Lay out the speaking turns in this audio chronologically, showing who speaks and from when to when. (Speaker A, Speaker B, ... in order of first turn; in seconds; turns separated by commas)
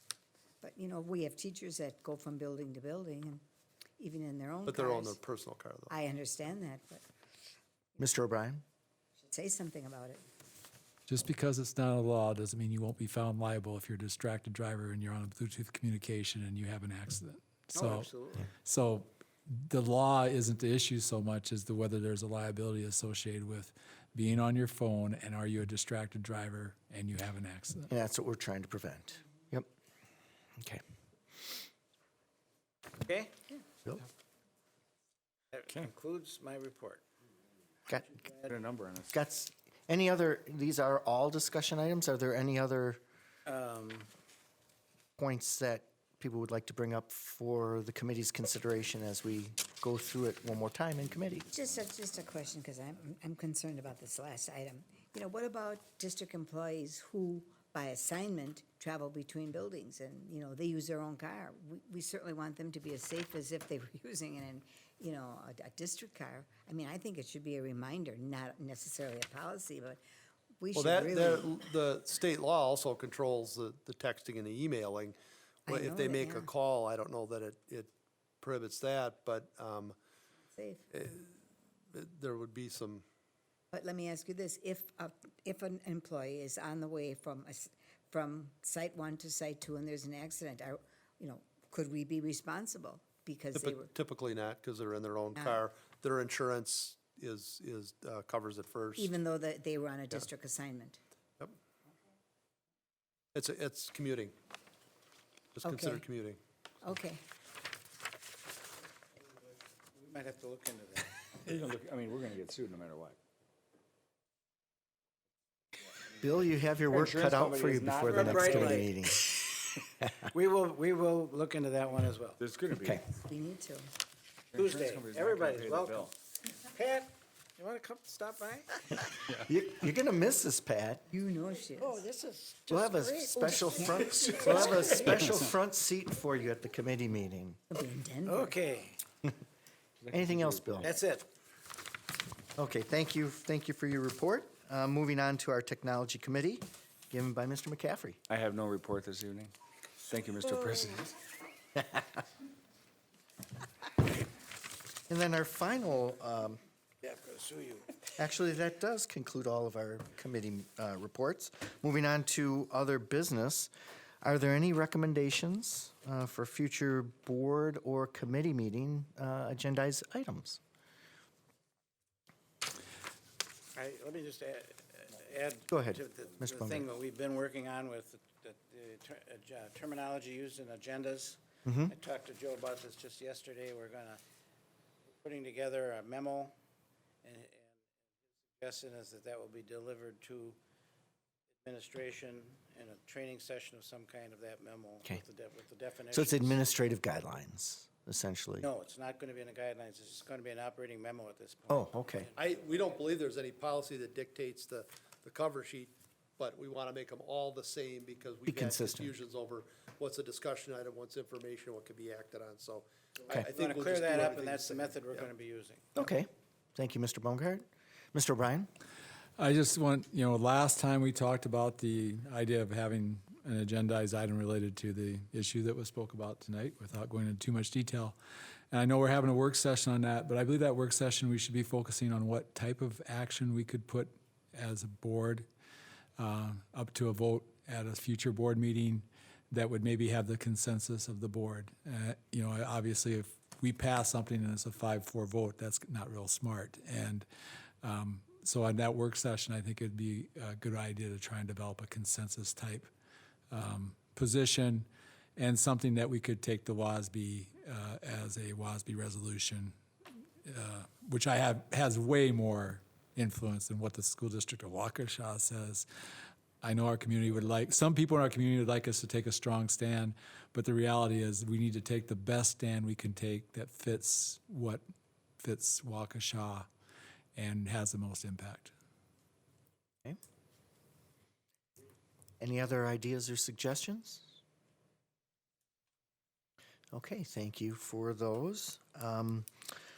Speaker A: 0.6-3.4, Speaker A: 4.0-5.2, Speaker B: 4.7-5.9, Speaker A: 5.9-7.0, Speaker C: 8.0-8.6, Speaker A: 9.3-10.2, Speaker D: 11.1-27.9, Speaker E: 17.7-18.5, Speaker C: 27.9-29.7, Speaker E: 33.0-33.5, Speaker E: 35.5-37.0, Speaker C: 37.9-38.1, Speaker E: 38.3-38.5, Speaker F: 38.5-39.2, Speaker C: 39.1-43.0, Speaker E: 43.5-44.1, Speaker C: 45.2-51.5, Speaker A: 51.5-70.0, Speaker A: 70.6-71.6, Speaker B: 70.8-75.2, Speaker A: 75.7-76.5, Speaker B: 75.7-77.9, Speaker B: 78.4-80.0, Speaker A: 80.5-80.9, Speaker B: 80.9-81.3, Speaker B: 81.9-83.0, Speaker A: 83.7-93.9, Speaker B: 93.5-99.1, Speaker A: 95.3-95.6, Speaker A: 99.0-101.0, Speaker B: 103.3-104.3, Speaker B: 105.5-106.4, Speaker A: 105.6-106.0, Speaker A: 106.8-107.2, Speaker E: 110.0-111.1, Speaker F: 111.4-113.2, Speaker C: 116.2-119.4, Speaker F: 116.9-118.9, Speaker E: 118.0-118.9, Speaker E: 120.3-122.4, Speaker F: 122.4-123.0, Speaker C: 122.8-123.0, Speaker A: 123.1-123.9, Speaker F: 124.5-126.1, Speaker E: 124.5-129.1, Speaker C: 129.4-131.0, Speaker A: 131.1-132.0, Speaker E: 131.8-135.2, Speaker C: 132.7-137.6, Speaker A: 133.4-134.4, Speaker A: 137.7-138.6, Speaker E: 138.3-139.0, Speaker F: 140.0-140.9, Speaker C: 140.1-141.0, Speaker E: 140.8-141.3, Speaker C: 142.6-148.2, Speaker F: 148.3-149.5, Speaker F: 150.1-151.1, Speaker C: 151.8-152.1, Speaker C: 155.1-156.6, Speaker E: 157.0-157.9, Speaker C: 158.2-163.7, Speaker C: 164.2-170.6, Speaker E: 173.8-184.2, Speaker C: 175.7-176.8, Speaker C: 181.7-181.9, Speaker E: 185.2-186.6, Speaker E: 187.2-187.8, Speaker E: 188.6-190.6, Speaker E: 191.6-196.6, Speaker C: 196.1-198.7, Speaker E: 198.6-203.0, Speaker C: 201.7-202.3, Speaker B: 202.4-215.3, Speaker C: 208.5-209.1, Speaker E: 213.3-215.9, Speaker C: 215.9-218.7, Speaker D: 219.4-228.2, Speaker D: 228.7-235.5, Speaker D: 236.2-247.3, Speaker D: 247.8-252.9, Speaker D: 253.5-259.8, Speaker D: 260.4-265.9, Speaker D: 266.6-274.8, Speaker D: 275.4-276.7, Speaker D: 277.4-278.7, Speaker C: 282.4-284.3, Speaker C: 286.9-289.5